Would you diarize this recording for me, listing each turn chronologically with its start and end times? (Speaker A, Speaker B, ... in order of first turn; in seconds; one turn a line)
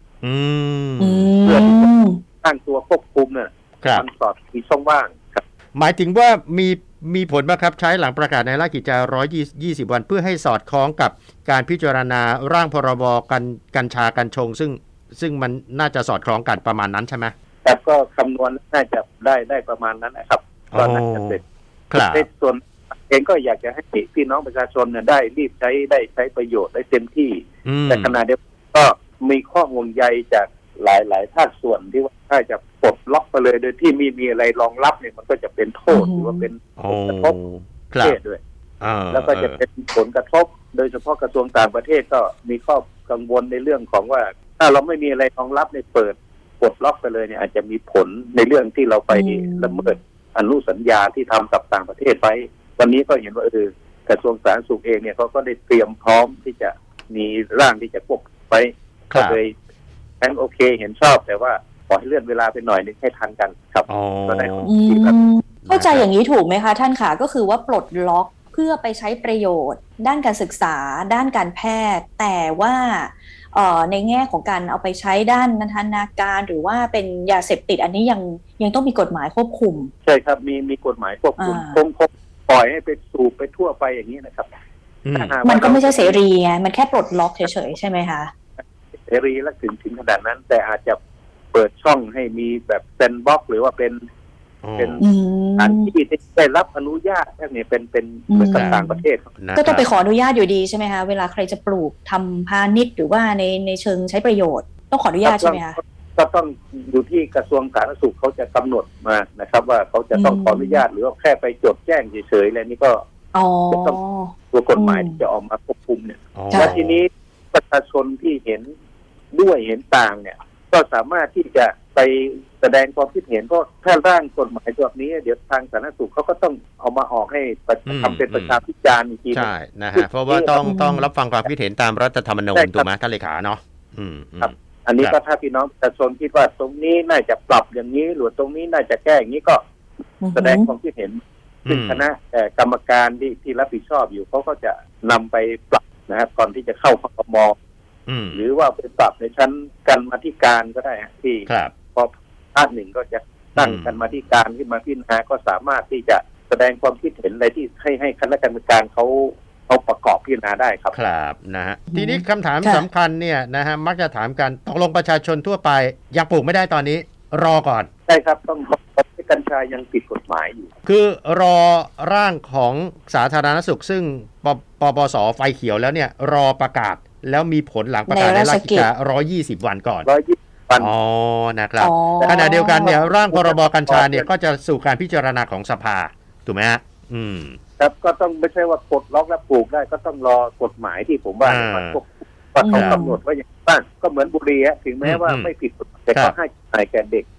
Speaker A: 0.2-1.3
Speaker B: 1.0-2.2
Speaker C: 1.4-1.9
Speaker C: 2.4-5.4
Speaker A: 5.7-17.3
Speaker C: 17.6-21.4
Speaker A: 20.7-21.4
Speaker A: 21.9-22.2
Speaker C: 21.9-37.4
Speaker A: 27.6-28.2
Speaker B: 35.9-36.5
Speaker A: 36.8-38.1
Speaker C: 38.0-38.4
Speaker A: 38.8-39.6
Speaker C: 39.1-59.5
Speaker B: 49.1-50.0
Speaker A: 59.1-59.4
Speaker C: 60.2-65.2
Speaker A: 63.9-64.7
Speaker B: 64.6-79.9
Speaker A: 65.7-66.1
Speaker C: 80.0-84.5
Speaker B: 81.4-81.8
Speaker A: 85.0-85.3
Speaker C: 85.1-86.2
Speaker B: 85.4-88.3
Speaker C: 88.6-91.0
Speaker C: 91.5-94.0
Speaker A: 94.6-95.0
Speaker C: 94.8-95.0
Speaker B: 95.0-95.9
Speaker C: 95.6-99.2
Speaker B: 98.3-99.0
Speaker A: 98.5-98.8
Speaker A: 99.4-99.8
Speaker B: 99.5-105.8
Speaker C: 105.2-113.0
Speaker B: 110.1-110.8
Speaker B: 113.3-115.2
Speaker C: 113.7-114.0
Speaker C: 114.5-118.7
Speaker A: 116.3-117.0
Speaker C: 119.3-130.6
Speaker A: 127.8-128.6
Speaker A: 129.3-135.2
Speaker B: 130.6-131.1
Speaker C: 132.5-132.9
Speaker C: 134.4-139.6
Speaker B: 140.2-140.7
Speaker C: 140.3-147.5
Speaker A: 141.7-142.0
Speaker A: 148.1-148.4
Speaker C: 148.3-160.9
Speaker A: 151.5-151.7
Speaker A: 153.6-154.0
Speaker A: 160.9-167.9
Speaker B: 161.9-162.8
Speaker C: 168.1-170.7
Speaker A: 170.8-180.1
Speaker B: 178.1-178.9
Speaker C: 180.0-180.9
Speaker A: 180.8-187.6
Speaker B: 181.8-183.0
Speaker C: 182.2-184.3
Speaker C: 187.8-197.3
Speaker A: 191.4-192.0
Speaker B: 192.6-193.2
Speaker A: 192.7-193.0
Speaker A: 195.0-195.5